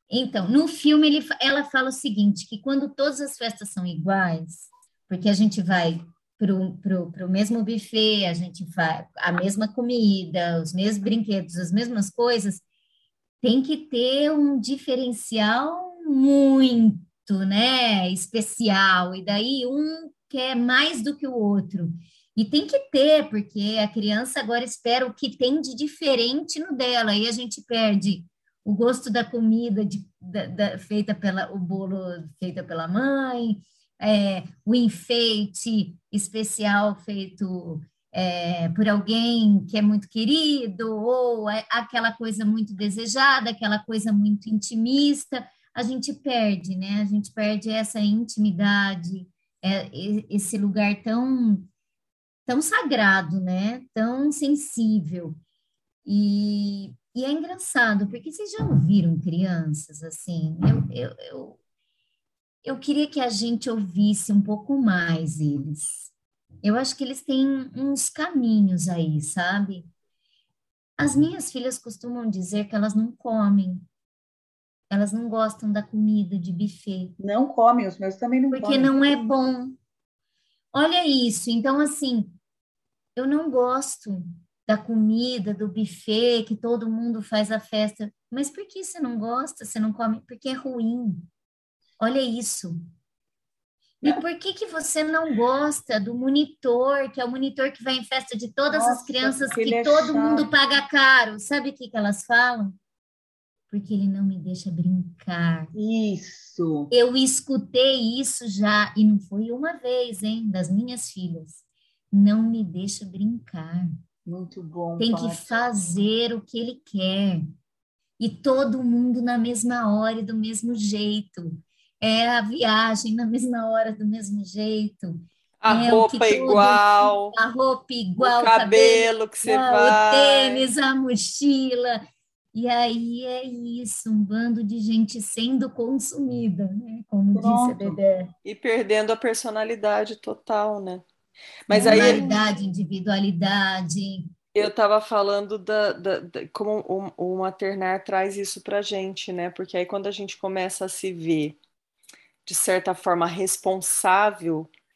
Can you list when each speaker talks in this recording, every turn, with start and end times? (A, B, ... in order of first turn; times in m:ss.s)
0:00.1-0:12.6 A
0:13.4-0:51.7 A
0:52.5-0:55.4 A
0:56.0-1:01.6 A
1:02.6-1:09.9 A
1:11.0-1:13.9 A
1:14.9-1:17.2 A
1:17.2-1:18.9 B
1:18.5-1:19.8 A
1:20.7-1:22.4 A
1:23.2-1:31.3 A
1:32.0-1:32.8 A
1:34.0-1:42.8 A
1:38.7-1:40.5 B
1:43.7-1:45.7 A
1:45.7-1:46.9 B
1:46.9-1:53.9 A
1:54.2-1:55.5 B
1:55.0-1:57.4 A
1:58.2-2:12.0 A
2:05.6-2:07.3 C
2:08.2-2:10.6 C
2:12.5-2:18.3 A
2:17.3-2:18.0 B
2:18.4-2:21.0 C
2:21.7-2:22.4 C
2:21.7-2:24.3 A
2:24.5-2:31.6 C
2:32.4-2:34.7 C